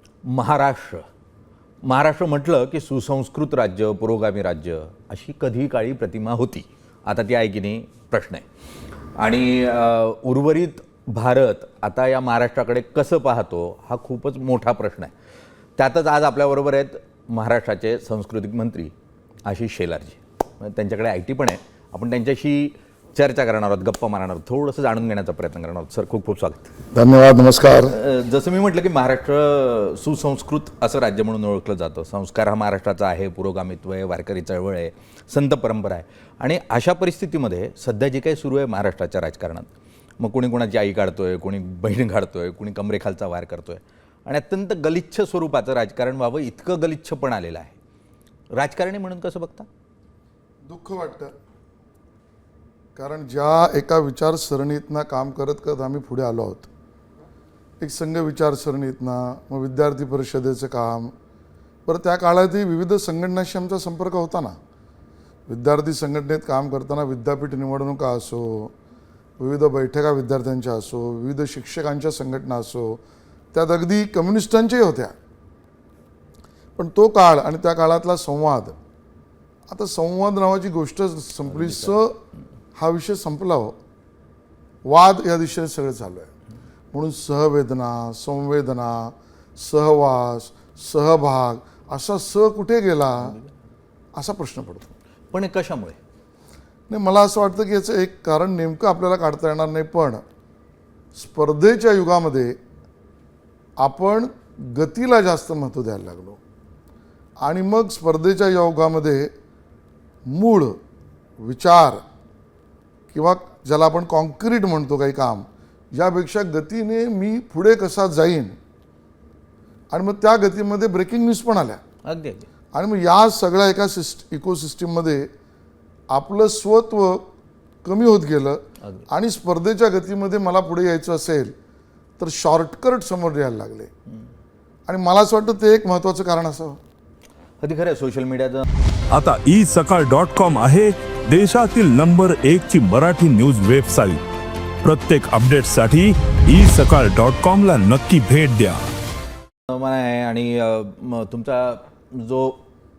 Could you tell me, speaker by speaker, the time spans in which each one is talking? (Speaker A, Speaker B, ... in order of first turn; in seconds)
Speaker A: 0.2-1.0, 1.8-8.4, 9.2-15.1, 15.8-18.9, 19.4-26.7, 27.9-39.7, 40.2-47.8, 48.5-49.7, 81.5-81.9, 95.3-96.0, 122.0-122.5, 137.6-138.7, 149.7-152.6
Speaker B: 26.9-27.9, 50.6-51.3, 53.0-56.7, 57.8-61.1, 61.9-64.6, 65.5-68.7, 69.4-73.0, 73.5-75.1, 76.8-78.8, 79.7-82.2, 82.8-83.8, 84.8-86.3, 86.9-93.4, 94.1-94.9, 96.9-100.2, 101.2-102.6, 103.8-106.4, 107.4-109.3, 110.3-110.8, 111.4-112.0, 113.1-118.6, 119.9-121.8, 122.7-125.3, 126.1-127.3, 127.8-131.5, 132.2-133.9, 134.9-136.8
Speaker C: 139.1-144.2, 144.8-148.8